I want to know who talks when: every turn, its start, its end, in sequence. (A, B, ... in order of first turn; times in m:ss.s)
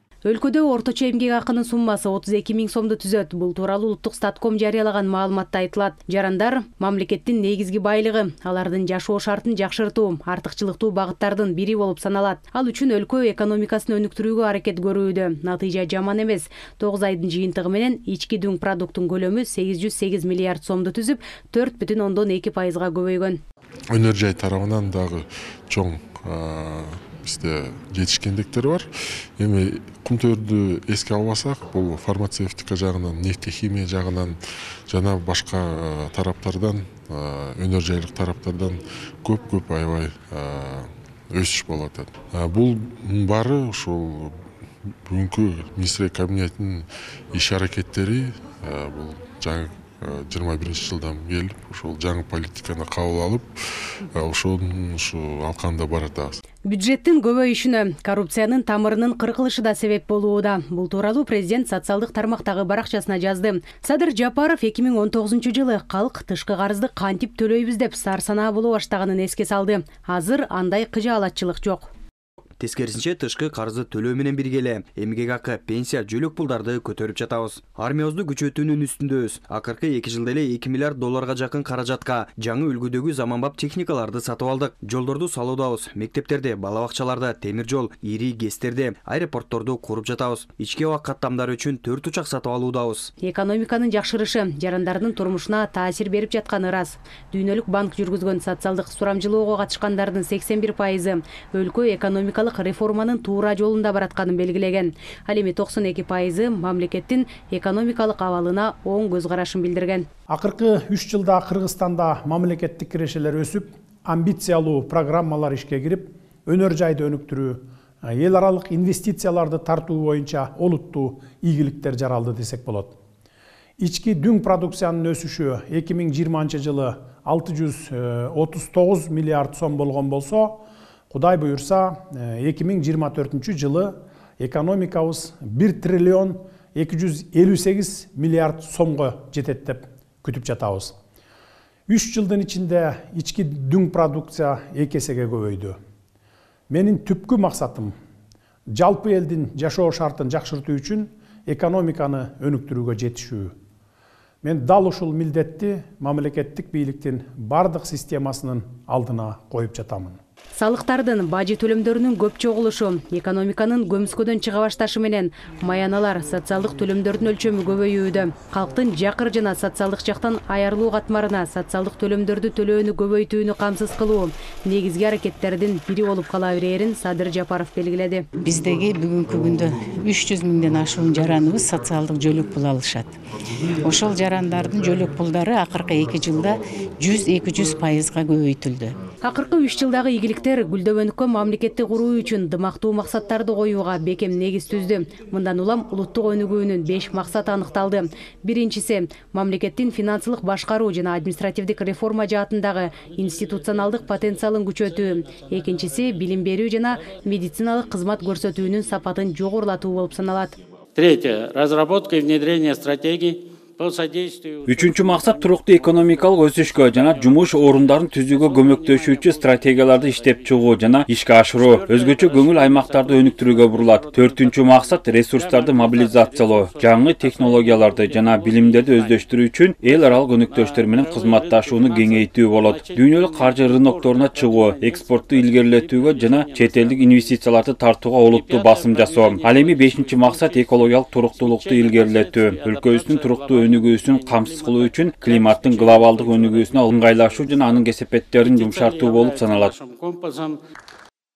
0:00.2-0:23.4 A
0:24.0-0:25.2 B
0:25.7-0:28.8 B
0:29.4-0:34.3 B
0:34.9-0:40.4 B
0:41.4-0:44.2 B
0:45.1-0:46.7 B
0:47.4-0:53.5 B
0:54.2-0:56.3 B
0:56.6-1:11.9 A
1:12.6-1:33.1 C
1:33.2-1:50.1 A
1:50.3-2:03.0 D
2:03.8-2:20.9 D
2:21.9-2:25.8 D
2:26.7-2:27.9 D
2:28.8-2:33.5 D
2:34.4-2:40.2 D
2:40.5-2:58.2 A
2:58.4-3:03.2 E
3:03.8-3:09.0 E
3:09.2-3:30.6 A
3:31.0-3:34.6 F
3:34.6-4:09.8 G
3:42.0-3:43.5 F
3:51.7-3:52.1 F
4:08.8-4:10.6 F